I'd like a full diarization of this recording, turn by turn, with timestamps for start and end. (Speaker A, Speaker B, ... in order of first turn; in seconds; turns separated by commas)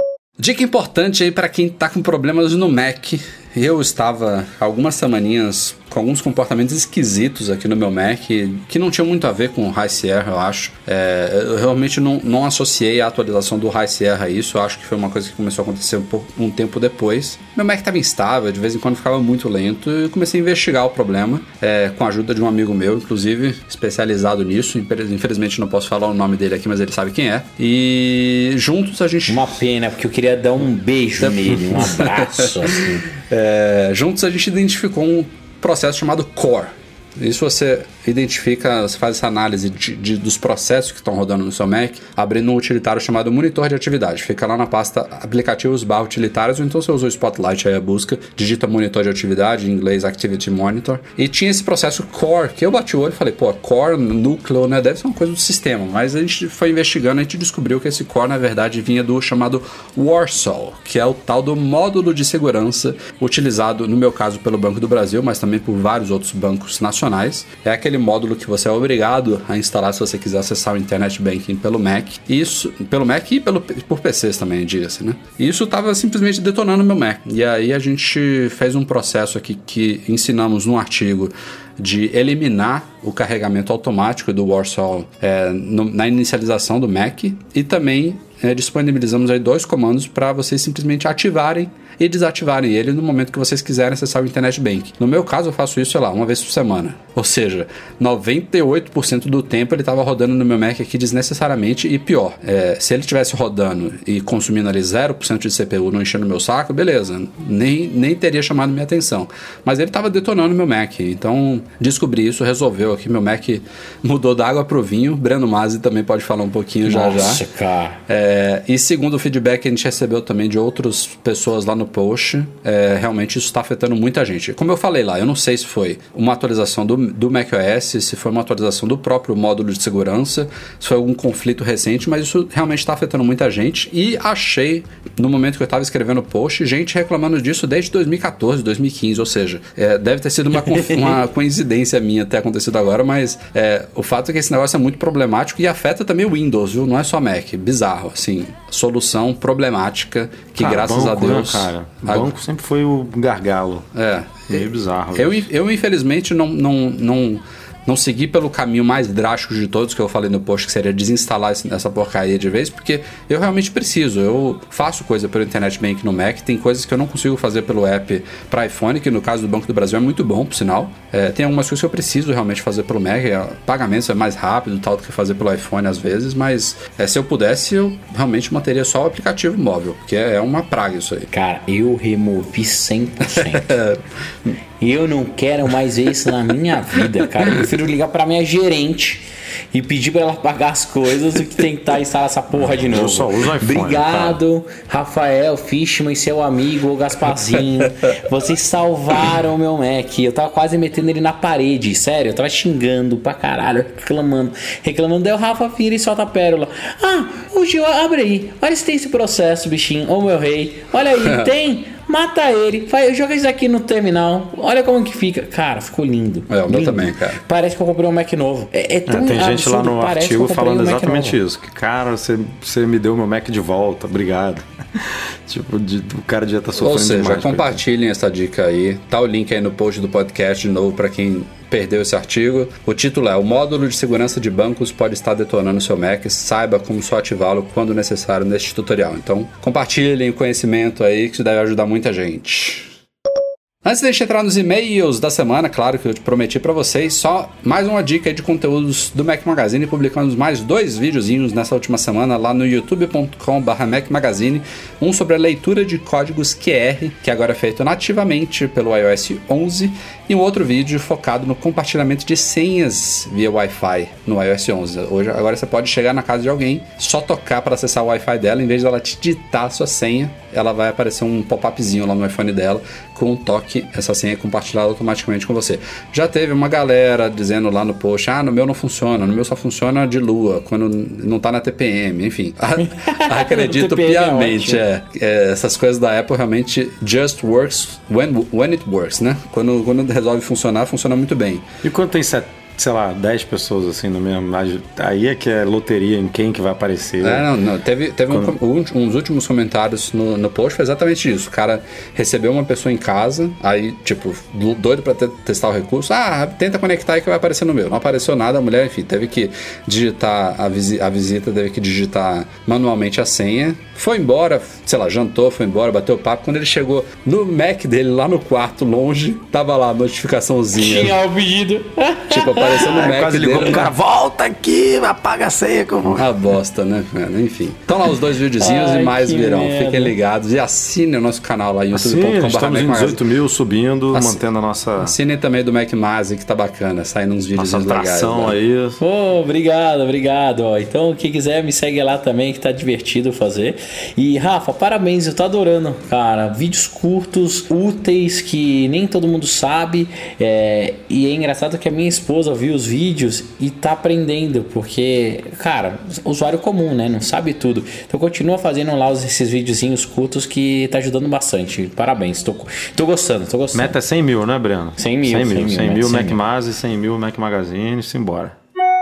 Speaker A: 0.4-29.6, Speaker B: 29.3-33.0, Speaker A: 31.2-117.4, Speaker B: 116.9-118.0, Speaker A: 118.1-152.3, Speaker C: 150.6-153.9, Speaker A: 153.9-181.3, Speaker C: 154.5-155.5, Speaker B: 181.3-183.7, Speaker A: 183.5-184.0, Speaker B: 184.8-221.4, Speaker C: 192.5-194.4, Speaker A: 211.2-211.5, Speaker A: 216.5-217.4, Speaker C: 219.1-227.8, Speaker A: 226.8-242.9, Speaker A: 243.8-291.7, Speaker B: 282.8-284.8, Speaker C: 291.8-297.5, Speaker A: 297.2-321.2, Speaker C: 298.3-298.6, Speaker B: 320.8-323.0, Speaker A: 322.3-323.9, Speaker C: 322.9-326.3, Speaker A: 326.1-333.2, Speaker B: 328.6-330.1, Speaker C: 331.9-335.1, Speaker A: 334.1-334.4, Speaker A: 335.0-338.6, Speaker C: 337.6-339.0, Speaker B: 339.0-363.9, Speaker C: 363.7-368.6, Speaker B: 365.0-366.4